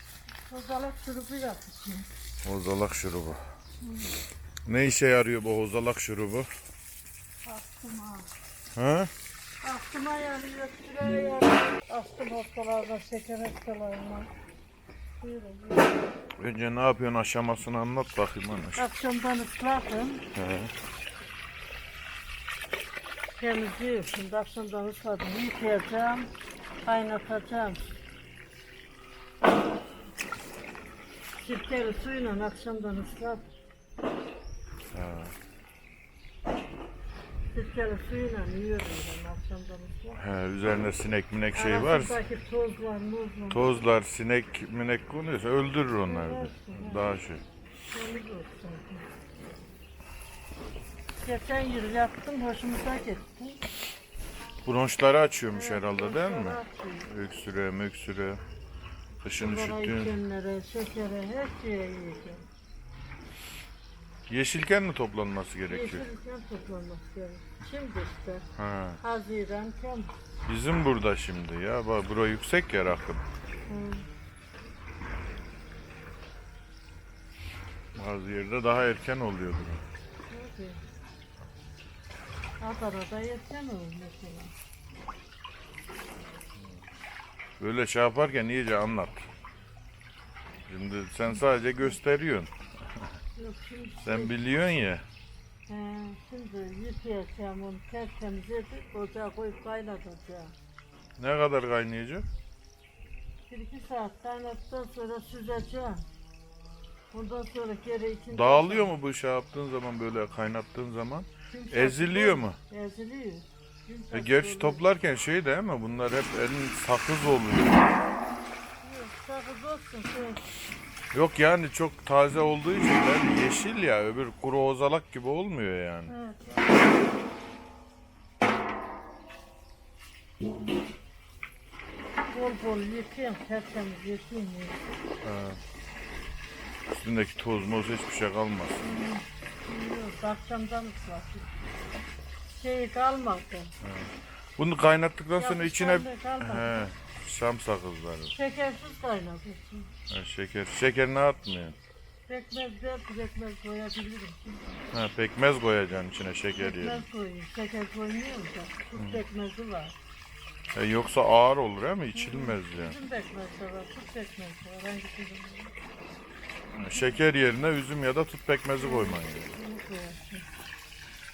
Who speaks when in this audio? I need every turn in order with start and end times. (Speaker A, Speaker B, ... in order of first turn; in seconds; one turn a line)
Speaker A: 0.5-2.1
Speaker B: 2.4-3.4
Speaker A: 3.8-4.1
Speaker B: 4.7-6.5
Speaker A: 7.5-8.3
Speaker B: 8.7-9.1
Speaker A: 9.6-14.3
Speaker A: 15.2-16.0
Speaker B: 16.4-18.8
Speaker A: 18.8-20.2
Speaker B: 20.3-20.7
Speaker A: 23.4-26.3
Speaker A: 26.9-27.9
Speaker A: 31.4-33.5
Speaker B: 34.9-35.3
Speaker A: 37.5-40.2
Speaker B: 40.2-42.2
Speaker A: 41.5-43.8
Speaker B: 43.5-47.4
Speaker A: 46.1-47.0
Speaker A: 47.9-49.1
Speaker A: 51.2-53.6
Speaker B: 54.6-58.4
Speaker A: 55.5-57.1
Speaker B: 59.2-60.1
Speaker A: 59.4-62.5
Speaker B: 64.3-66.0
Speaker A: 65.7-68.5
Speaker B: 68.6-69.0
Speaker A: 69.0-70.1
Speaker B: 70.5-73.3
Speaker A: 73.7-74.1
Speaker B: 77.9-79.8
Speaker A: 80.3-80.8
Speaker A: 82.6-84.5
Speaker B: 87.6-89.3
Speaker B: 90.7-92.5
Speaker A: 93.4-94.3
Speaker B: 94.0-95.0
Speaker A: 95.7-100.5
Speaker B: 101.2-102.3
Speaker A: 103.5-106.1
Speaker A: 107.1-108.9
Speaker B: 108.3-112.6
Speaker A: 111.5-114.8
Speaker B: 114.1-117.9
Speaker A: 118.8-120.5
Speaker B: 121.1-126.1
Speaker A: 126.1-126.7
Speaker A: 132.3-134.8
Speaker B: 135.2-135.6
Speaker B: 136.9-139.0
Speaker A: 138.8-141.5
Speaker A: 142.5-143.7
Speaker B: 143.8-148.3
Speaker A: 145.3-146.9
Speaker A: 148.3-149.9
Speaker B: 150.1-151.8
Speaker A: 152.3-154.8
Speaker B: 154.9-157.0
Speaker A: 156.6-159.9
Speaker B: 160.7-163.0
Speaker A: 162.1-165.7
Speaker B: 166.7-169.6
Speaker A: 168.8-170.5